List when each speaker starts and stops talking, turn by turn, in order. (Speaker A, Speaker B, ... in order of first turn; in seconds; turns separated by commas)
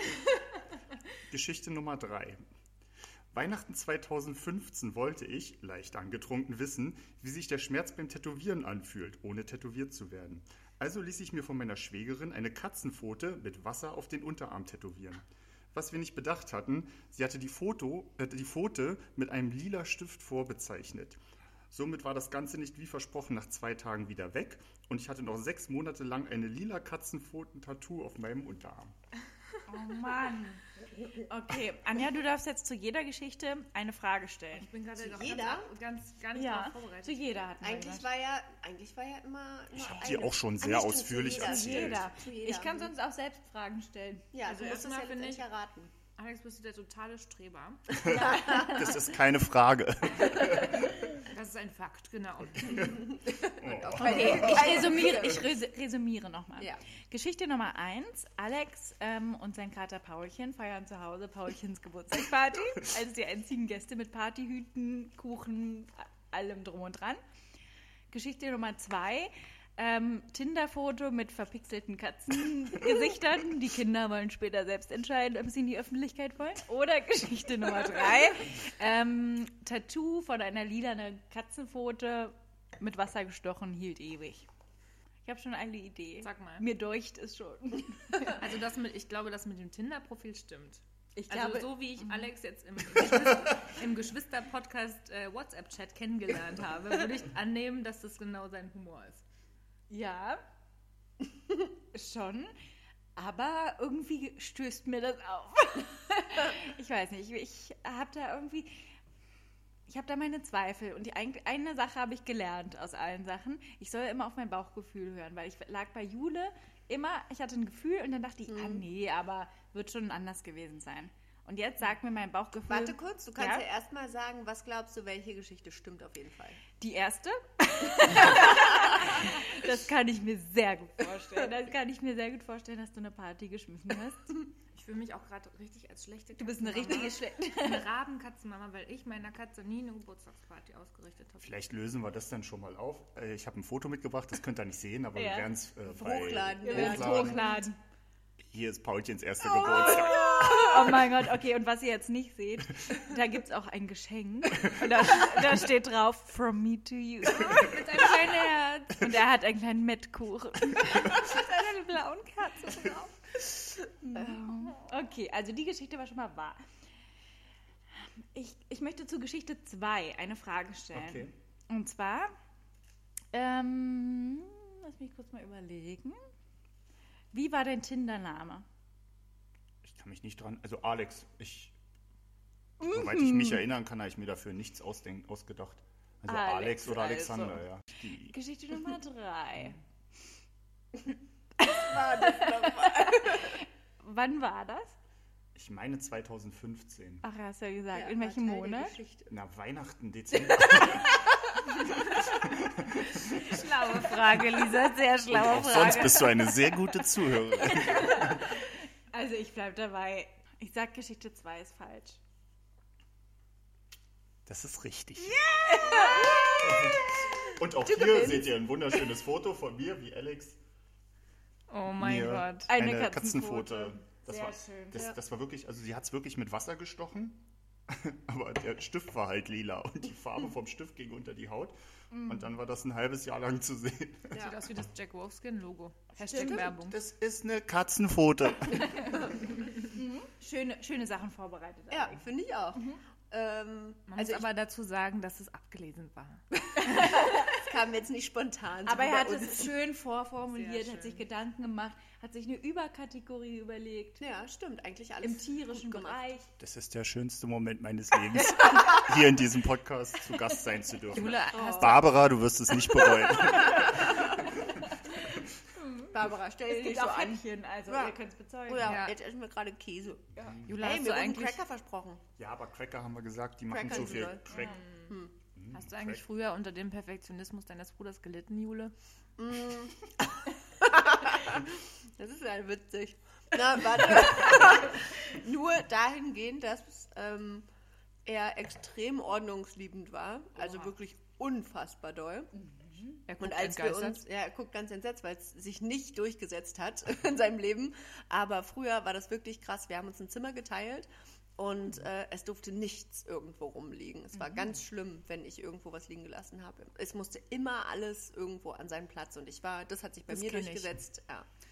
Speaker A: 1.3-2.4, Speaker A: 3.3-21.2, Speaker A: 21.7-28.9, Speaker B: 29.7-30.6, Speaker B: 31.1-34.7, Speaker C: 34.5-37.2, Speaker D: 35.0-35.7, Speaker B: 36.3-38.1, Speaker D: 37.6-42.9, Speaker A: 39.7-42.1, Speaker B: 41.2-44.3, Speaker D: 44.3-45.9, Speaker C: 44.4-45.5, Speaker C: 46.2-48.0, Speaker D: 48.0-48.9, Speaker A: 48.0-51.1, Speaker B: 48.1-48.8, Speaker C: 51.2-53.0, Speaker A: 52.6-55.2, Speaker D: 52.8-55.5, Speaker B: 54.0-67.2, Speaker B: 68.1-84.5, Speaker B: 85.2-88.4, Speaker C: 86.2-86.6, Speaker C: 88.2-99.2, Speaker B: 91.2-92.3, Speaker B: 99.9-100.4, Speaker B: 101.9-102.5, Speaker B: 103.2-108.8, Speaker B: 109.9-123.6, Speaker D: 118.5-118.8, Speaker D: 122.7-126.6, Speaker B: 126.8-134.4, Speaker C: 134.7-141.5, Speaker B: 136.4-137.8, Speaker A: 141.4-147.5, Speaker B: 145.1-145.5, Speaker D: 145.8-147.6, Speaker B: 146.6-147.8, Speaker A: 148.5-150.7, Speaker D: 149.6-151.0, Speaker B: 149.6-158.1, Speaker C: 157.3-159.0, Speaker B: 158.9-161.2, Speaker C: 160.9-163.4, Speaker B: 164.0-166.6, Speaker B: 168.0-172.3, Speaker A: 170.9-171.3, Speaker B: 173.3-176.2, Speaker B: 177.3-178.7, Speaker A: 179.8-181.7, Speaker B: 182.8-183.7, Speaker A: 182.8-188.3, Speaker B: 186.3-187.6, Speaker B: 188.2-189.8, Speaker B: 191.6-194.9, Speaker D: 191.7-193.5, Speaker A: 195.5-197.2, Speaker B: 197.2-199.0, Speaker D: 197.9-199.3, Speaker A: 199.3-203.4, Speaker C: 203.4-206.2, Speaker B: 203.4-206.3, Speaker A: 205.3-208.5, Speaker B: 207.6-212.2, Speaker A: 214.4-215.4, Speaker B: 215.2-216.9, Speaker D: 215.9-216.4, Speaker A: 216.4-220.6, Speaker D: 217.8-218.6, Speaker C: 221.7-222.7, Speaker A: 221.9-234.4, Speaker B: 222.7-225.1, Speaker B: 232.1-232.5, Speaker C: 234.3-237.0, Speaker B: 236.2-236.7, Speaker A: 236.6-239.2, Speaker B: 239.9-242.2, Speaker D: 241.9-244.5, Speaker B: 242.7-243.0, Speaker C: 244.1-246.4, Speaker B: 246.8-247.5, Speaker D: 247.0-249.7, Speaker B: 248.8-254.2, Speaker C: 250.5-251.2, Speaker D: 254.2-256.2, Speaker B: 255.2-256.5, Speaker A: 256.6-264.8, Speaker C: 261.1-262.1, Speaker D: 261.5-261.9, Speaker B: 263.4-264.1, Speaker B: 265.7-268.9, Speaker D: 266.1-272.2, Speaker C: 268.8-269.1, Speaker A: 270.4-270.7, Speaker C: 270.6-271.6, Speaker A: 272.4-274.8, Speaker D: 273.7-275.3, Speaker C: 274.5-275.1, Speaker A: 275.5-276.2, Speaker C: 275.7-278.9, Speaker D: 279.4-287.6, Speaker D: 288.2-292.5, Speaker C: 290.6-290.9, Speaker B: 292.6-293.2, Speaker C: 293.3-294.2, Speaker D: 293.4-311.4, Speaker C: 310.3-310.9